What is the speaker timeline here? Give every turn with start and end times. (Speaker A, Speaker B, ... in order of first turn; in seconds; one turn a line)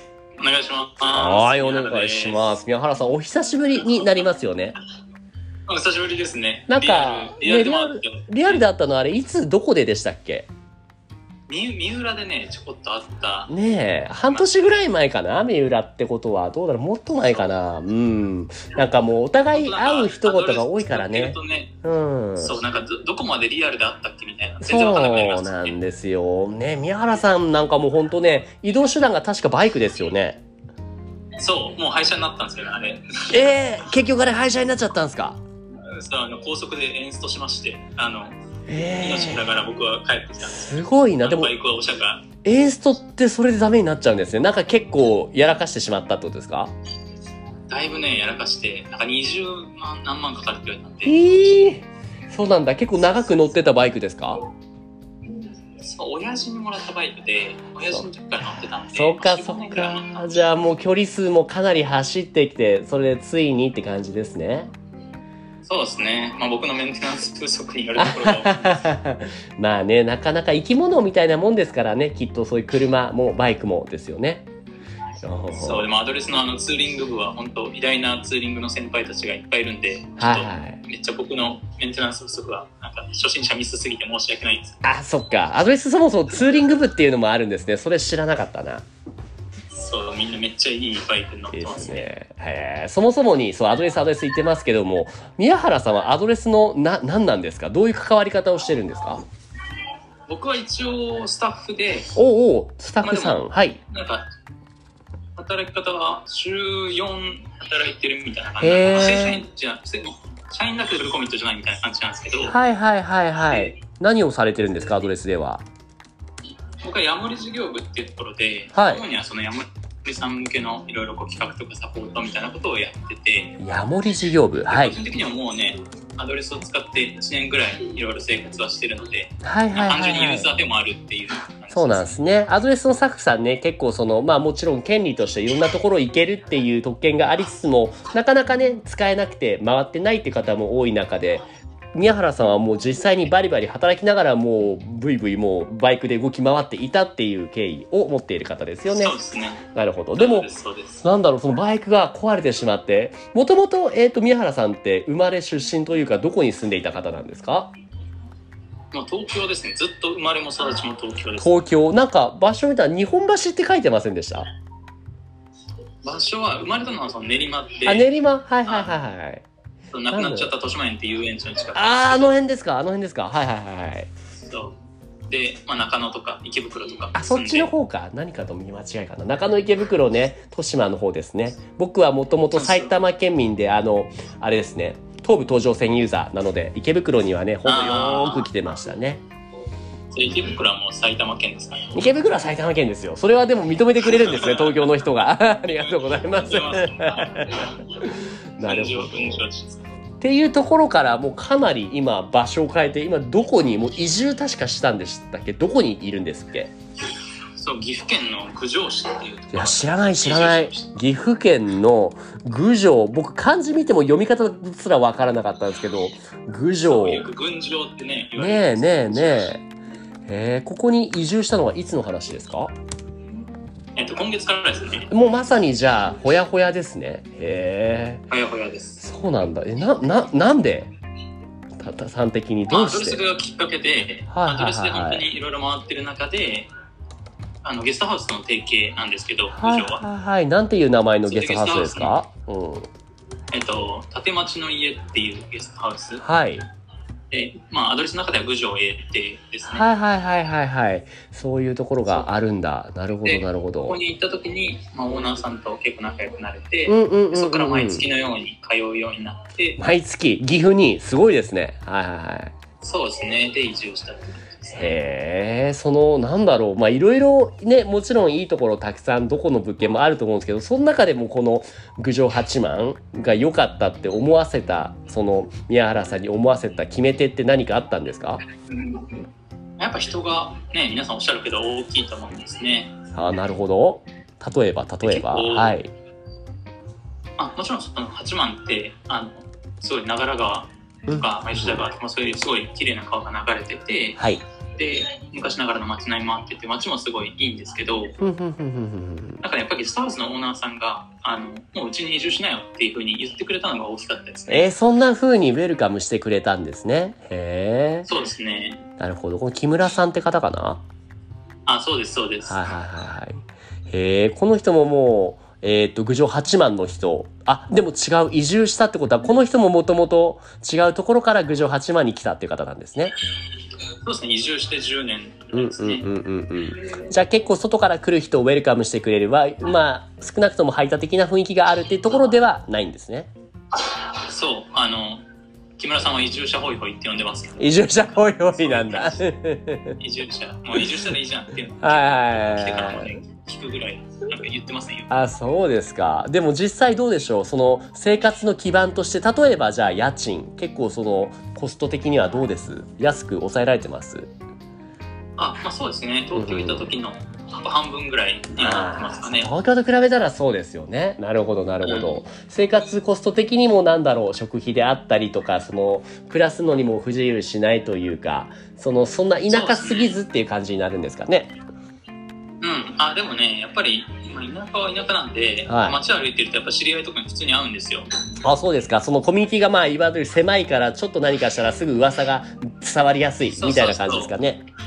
Speaker A: 0.4-2.5
Speaker B: 1.1-4.8
Speaker A: 5.7-8.7
Speaker B: 6.7-10.5
Speaker A: 11.5-13.5
Speaker B: 13.5-22.6
Speaker A: 14.3-14.6
Speaker A: 19.5-21.7
Speaker A: 22.4-25.8
Speaker B: 24.6-30.4
Speaker A: 31.4-33.6
Speaker B: 33.3-35.4
Speaker A: 35.8-42.2
Speaker B: 38.7-39.4
Speaker B: 40.4-41.5
Speaker B: 42.4-46.7
Speaker A: 47.7-51.2
Speaker B: 51.0-54.4
Speaker A: 55.8-60.4
Speaker B: 58.9-64.7
Speaker A: 65.7-68.9
Speaker B: 68.0-74.5
Speaker B: 75.2-75.9
Speaker A: 75.5-84.8
Speaker B: 80.2-80.8
Speaker B: 84.8-88.8
Speaker A: 89.7-92.1
Speaker B: 91.5-99.2
Speaker A: 100.3-102.1
Speaker B: 102.2-103.8
Speaker A: 103.0-104.3
Speaker A: 105.4-112.6
Speaker B: 108.6-109.4
Speaker B: 112.5-115.7
Speaker A: 116.8-123.6
Speaker B: 118.7-119.0
Speaker B: 123.6-125.0
Speaker A: 124.7-132.2
Speaker B: 129.4-130.5
Speaker B: 131.7-149.2
Speaker A: 149.0-151.1
Speaker B: 149.7-150.5
Speaker B: 151.0-157.7
Speaker A: 158.9-161.6
Speaker B: 161.4-164.5
Speaker A: 166.0-168.1
Speaker B: 167.9-169.4
Speaker A: 168.7-169.0
Speaker A: 169.9-172.3
Speaker B: 170.1-170.5
Speaker B: 171.8-174.1
Speaker A: 174.5-174.8
Speaker A: 175.3-177.7
Speaker B: 177.2-189.2
Speaker A: 182.5-182.9
Speaker A: 187.7-188.5
Speaker A: 190.1-192.1
Speaker B: 191.9-199.5
Speaker A: 194.1-194.9
Speaker A: 195.9-199.9
Speaker B: 200.2-206.7
Speaker A: 207.6-210.9
Speaker B: 209.5-217.3
Speaker A: 216.8-219.5
Speaker B: 218.4-219.6
Speaker B: 220.3-222.7
Speaker A: 224.0-225.1
Speaker B: 225.1-228.2
Speaker A: 228.3-229.0
Speaker B: 229.0-230.9
Speaker B: 231.8-233.2
Speaker A: 232.7-236.7
Speaker B: 234.3-235.3
Speaker A: 237.6-240.1
Speaker B: 239.5-242.9
Speaker A: 241.3-242.2
Speaker A: 243.5-246.2
Speaker B: 246.2-246.7
Speaker A: 247.3-249.9
Speaker B: 249.7-254.0
Speaker A: 253.2-259.8
Speaker B: 256.9-258.1
Speaker B: 259.8-262.5
Speaker A: 262.8-264.9
Speaker B: 264.7-278.4
Speaker A: 278.7-279.2
Speaker A: 279.8-282.9
Speaker B: 283.1-285.9
Speaker A: 285.0-285.8
Speaker A: 287.4-298.2
Speaker B: 291.1-291.9
Speaker B: 298.2-299.4
Speaker A: 299.4-304.7
Speaker B: 304.5-308.1
Speaker A: 308.1-308.8
Speaker B: 309.0-310.8
Speaker A: 311.7-312.7
Speaker B: 312.5-323.1
Speaker A: 324.0-326.1
Speaker B: 325.5-333.3
Speaker A: 333.9-335.2
Speaker A: 335.8-339.2
Speaker B: 337.6-340.0
Speaker A: 340.0-345.2
Speaker B: 341.8-343.1
Speaker B: 345.1-354.3
Speaker A: 355.4-359.5
Speaker B: 356.3-356.9
Speaker B: 358.5-371.6
Speaker A: 361.8-362.2
Speaker A: 369.5-370.1
Speaker A: 372.6-378.1
Speaker B: 375.7-376.0
Speaker B: 378.4-384.6
Speaker A: 383.6-384.3